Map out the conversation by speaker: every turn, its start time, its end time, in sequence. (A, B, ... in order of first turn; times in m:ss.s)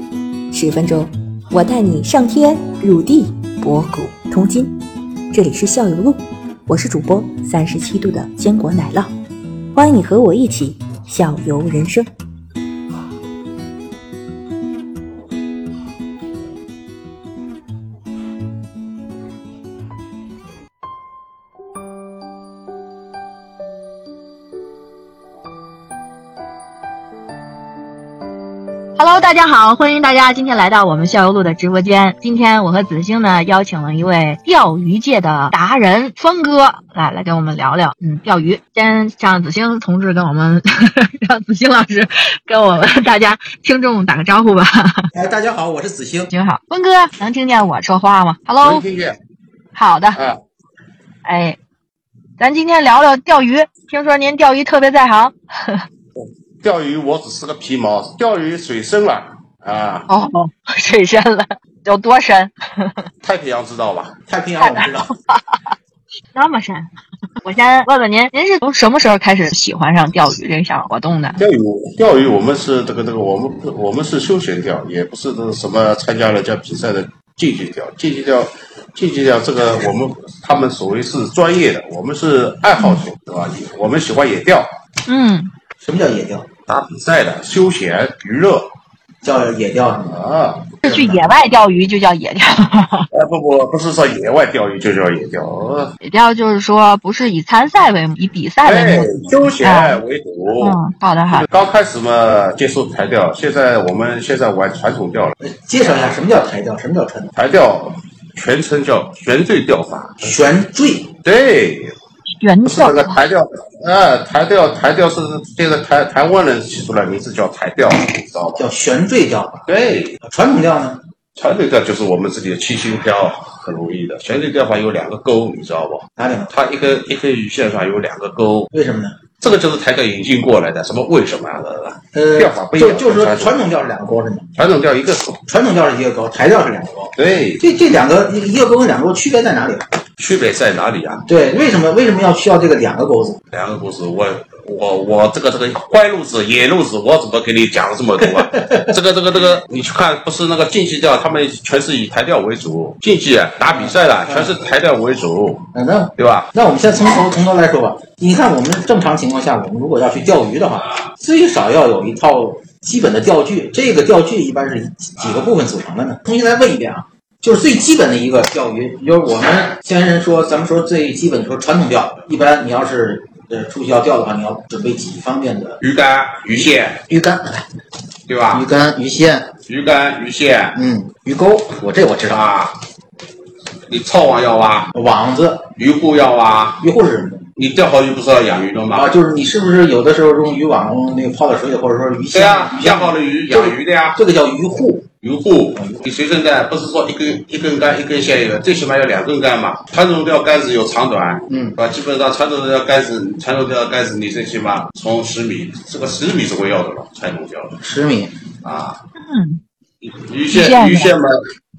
0:00.5-0:04.8 A
0:05.3-0:09.2 A
0:09.7-0:12.1 A
0:29.0-0:45.1 B
0:45.1-0:46.3 C
0:46.3-0:48.8 B
0:48.6-0:49.2 D
0:49.8-0:50.2 B
0:51.2-0:51.6 B
0:52.4-0:55.8 B
0:56.2-1:00.1 D
1:00.1-1:03.1 B
1:03.2-1:04.2 D
1:04.3-1:05.1 C
1:04.6-1:05.8 B
1:06.3-1:06.9 B
1:07.4-1:11.4 B
1:11.4-1:24.7 D
1:25.1-1:25.5 B
1:25.8-1:26.5 C
1:26.7-1:28.7 D
1:29.2-1:30.2 C
1:30.1-1:30.8 D
1:30.8-1:33.1 B
1:30.8-1:31.2 C
1:33.1-1:35.9 D
1:36.0-1:40.0 B
1:38.6-1:40.8 D
1:40.6-1:41.5 B
1:41.3-1:46.2 D
1:45.4-1:47.3 C
1:47.4-1:50.6 D
1:50.2-1:51.1 C
1:51.2-1:52.0 D
1:52.4-1:53.2 B
1:52.6-1:58.7 D
1:58.6-1:59.7 C
1:59.7-2:00.2 D
2:00.2-2:01.0 C
2:01.4-2:08.7 D
2:06.2-2:06.5 C
2:08.7-2:09.2 C
2:09.4-2:13.6 D
2:12.1-2:14.5 C
2:14.6-2:15.4 D
2:15.5-2:19.9 C
2:17.2-2:17.6 D
2:20.2-2:21.3 D
2:21.3-2:23.4 C
2:23.5-2:35.7 D
2:28.2-2:29.6 C
2:33.7-2:34.7 C
2:35.7-2:55.8 C
2:36.2-2:36.5 D
2:55.8-2:57.0 D
2:56.6-2:57.7 C
2:58.3-2:58.7 D
2:58.5-2:59.5 C
2:59.7-3:00.8 D
3:00.8-3:02.5 C
3:02.3-3:02.8 D
3:03.9-3:04.9 D
3:04.9-3:05.7 C
3:05.8-3:06.8 D
3:06.8-3:07.5 C
3:07.6-3:09.2 D
3:08.9-3:15.1 C
3:12.3-3:14.2 D
3:15.1-3:27.8 D
3:15.8-3:16.1 C
3:21.5-3:21.8 C
3:27.8-3:28.4 C
3:28.6-3:29.0 D
3:29.2-3:29.6 B
3:30.0-3:31.4 D
3:30.5-3:31.1 B